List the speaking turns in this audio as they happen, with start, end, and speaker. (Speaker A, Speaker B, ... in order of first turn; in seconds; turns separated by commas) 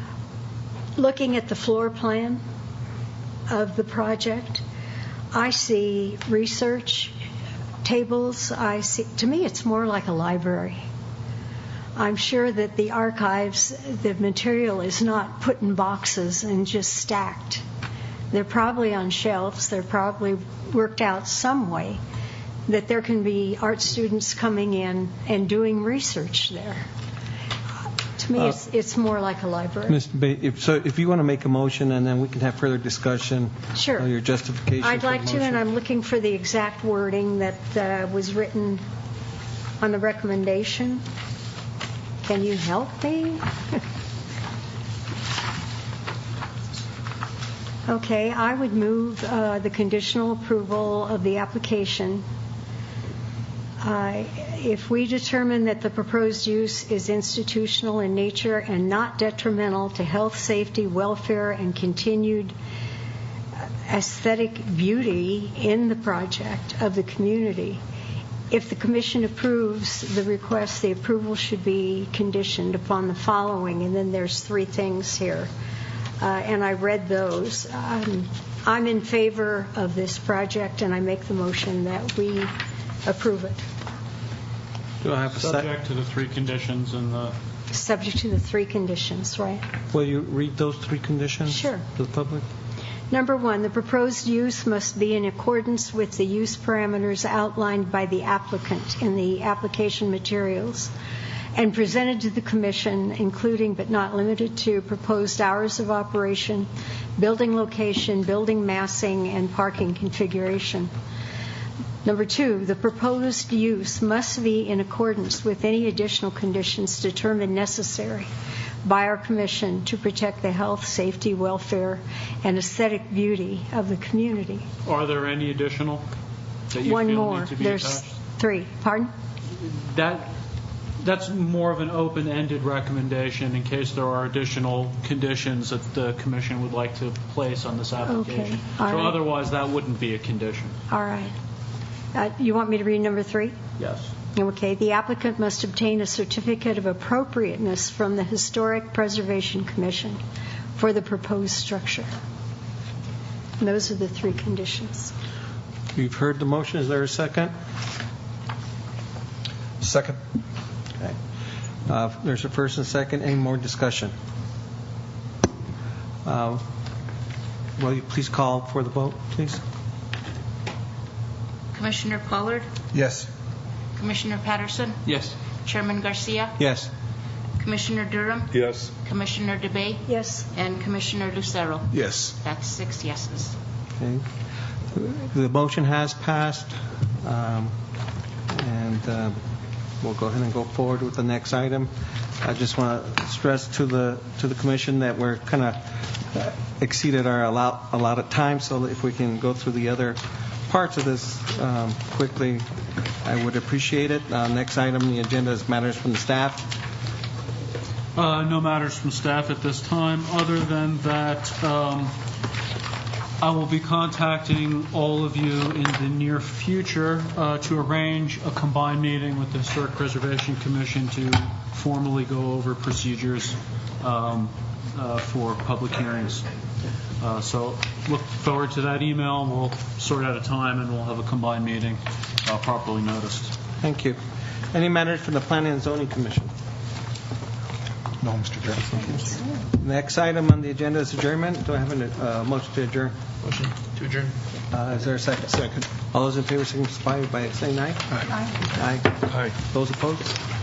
Speaker A: 1.0-2.4, Speaker A: 3.5-4.6, Speaker A: 5.3-7.2, Speaker A: 7.8-10.8, Speaker A: 12.0-17.6, Speaker A: 18.3-22.0, Speaker A: 22.7-26.9, Speaker A: 28.2-30.0, Speaker B: 29.9-35.6, Speaker A: 33.8-34.1, Speaker A: 34.8-38.8, Speaker A: 39.8-41.0, Speaker A: 42.2-43.8, Speaker A: 47.9-52.2, Speaker A: 53.8-62.5, Speaker A: 63.9-67.8, Speaker A: 68.5-75.5, Speaker A: 76.2-82.5, Speaker A: 83.0-83.6, Speaker B: 85.0-85.7, Speaker C: 85.3-87.3, Speaker A: 87.7-89.7, Speaker B: 89.9-92.5, Speaker A: 91.5-91.8, Speaker A: 93.1-100.9, Speaker A: 101.5-110.9, Speaker A: 112.0-118.3, Speaker A: 118.8-124.7, Speaker C: 124.8-126.1, Speaker C: 126.7-128.1, Speaker A: 126.8-129.1, Speaker C: 129.5-130.3, Speaker C: 131.0-140.8, Speaker A: 138.0-139.2, Speaker A: 140.9-141.3, Speaker A: 142.1-143.6, Speaker C: 143.8-144.1, Speaker A: 144.3-150.2, Speaker A: 150.8-152.1, Speaker A: 153.6-155.1, Speaker B: 155.9-157.5, Speaker D: 159.8-160.2, Speaker B: 161.9-164.1, Speaker B: 166.2-166.6, Speaker B: 167.8-169.6, Speaker E: 171.7-172.7, Speaker D: 172.9-173.3, Speaker E: 174.0-176.6, Speaker B: 176.6-176.9, Speaker E: 177.6-183.6, Speaker D: 178.6-178.9, Speaker A: 180.1-180.5, Speaker D: 181.9-182.3, Speaker B: 184.0-184.2, Speaker B: 184.9-187.7, Speaker B: 188.5-189.4, Speaker B: 190.0-191.9, Speaker B: 192.4-202.7, Speaker B: 203.2-206.7, Speaker C: 208.2-212.1, Speaker C: 213.4-226.5, Speaker C: 227.2-233.5, Speaker B: 233.8-234.2, Speaker B: 234.7-236.5, Speaker D: 238.2-239.2, Speaker B: 239.7-243.2, Speaker D: 243.4-244.3, Speaker B: 244.7-250.4